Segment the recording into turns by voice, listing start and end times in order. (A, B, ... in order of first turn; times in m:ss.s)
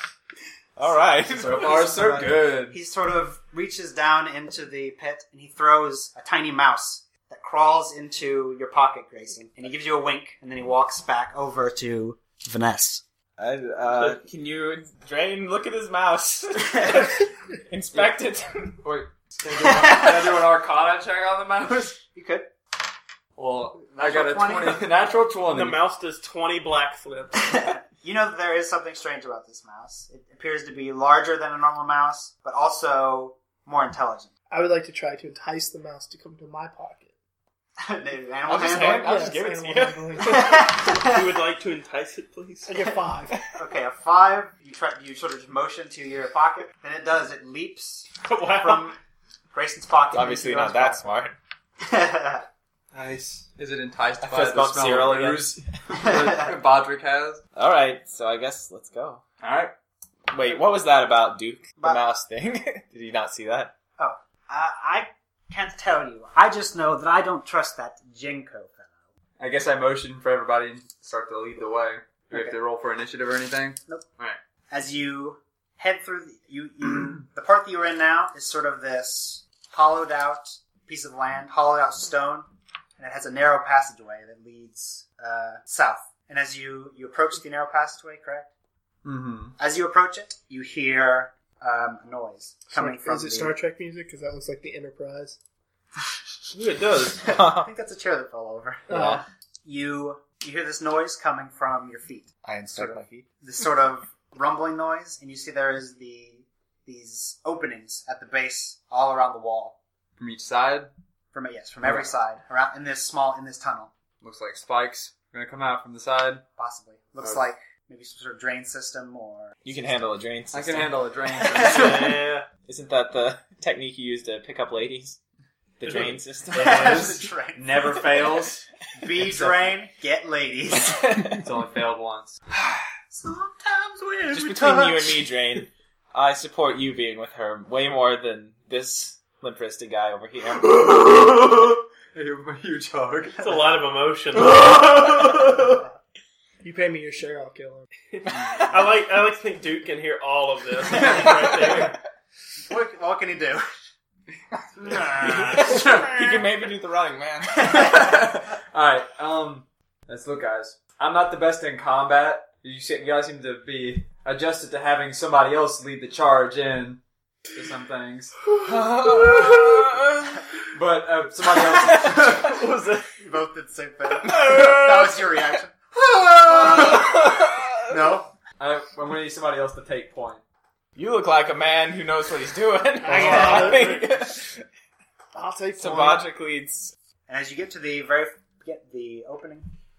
0:00.8-0:02.1 A
0:01.3-0:02.8 B
0:01.6-0:13.0 C
0:13.4-0:18.8 A
0:18.8-0:22.0 B
0:19.6-0:20.4 C
0:22.0-0:22.5 C
0:23.4-0:25.8 B
0:23.9-0:24.9 C
0:25.5-0:27.5 D
0:27.5-0:34.3 C
0:34.5-0:37.1 E
0:37.8-0:39.3 C
0:38.5-0:40.6 A
0:38.7-0:40.5 E
0:40.3-0:41.2 C
0:40.5-0:42.9 D
0:42.7-0:43.4 E
0:43.5-0:49.0 C
0:48.2-0:48.9 D
0:49.5-0:51.0 C
0:50.1-0:51.4 A
0:51.8-0:52.4 C
0:52.9-0:57.4 B
0:54.2-0:55.6 A
0:57.6-0:59.2 A
0:59.4-0:59.7 B
1:00.3-1:03.7 A
1:01.8-1:02.0 C
1:04.0-1:08.9 C
1:09.4-1:14.4 B
1:14.7-1:28.5 C
1:29.0-1:29.6 B
1:29.6-1:33.6 C
1:32.7-1:35.4 E
1:36.5-1:37.2 D
1:37.2-1:49.8 C
1:37.3-1:37.7 A
1:38.9-1:39.2 E
1:38.9-1:39.2 A
1:42.4-1:43.3 A
1:50.2-1:50.9 B
1:51.3-1:53.9 C
1:54.2-1:56.4 B
1:56.6-1:59.6 C
1:59.6-2:01.0 A
2:00.5-2:02.2 B
2:01.5-2:02.5 D
2:01.5-2:02.1 C
2:02.7-2:05.2 A
2:05.8-2:07.1 A
2:06.5-2:08.6 B
2:06.6-2:08.2 C
2:09.0-2:11.4 C
2:09.2-2:09.6 B
2:10.9-2:11.5 A
2:11.4-2:12.4 B
2:12.6-2:15.2 C
2:14.3-2:20.8 A
2:20.6-2:23.5 B
2:23.4-2:25.5 D
2:24.5-2:25.6 B
2:26.6-2:27.9 E
2:28.1-2:32.0 D
2:28.3-2:28.7 B
2:31.0-2:31.4 B
2:32.7-2:33.7 C
2:34.8-2:36.0 C
2:34.9-2:38.1 A
2:35.2-2:36.2 B
2:37.6-2:47.0 B
2:47.5-2:49.8 B
2:48.6-2:50.3 A
2:50.7-2:52.6 B
2:52.4-2:53.1 D
2:53.2-2:55.7 C
2:54.4-2:54.6 A
2:56.0-2:57.3 B
2:56.5-2:57.8 A
2:57.9-3:00.4 B
3:01.0-3:04.7 A
3:03.0-3:04.1 E
3:03.1-3:03.6 B
3:03.3-3:03.7 C
3:03.7-3:04.0 D
3:05.3-3:06.3 E
3:05.8-3:06.9 A
3:07.3-3:09.7 C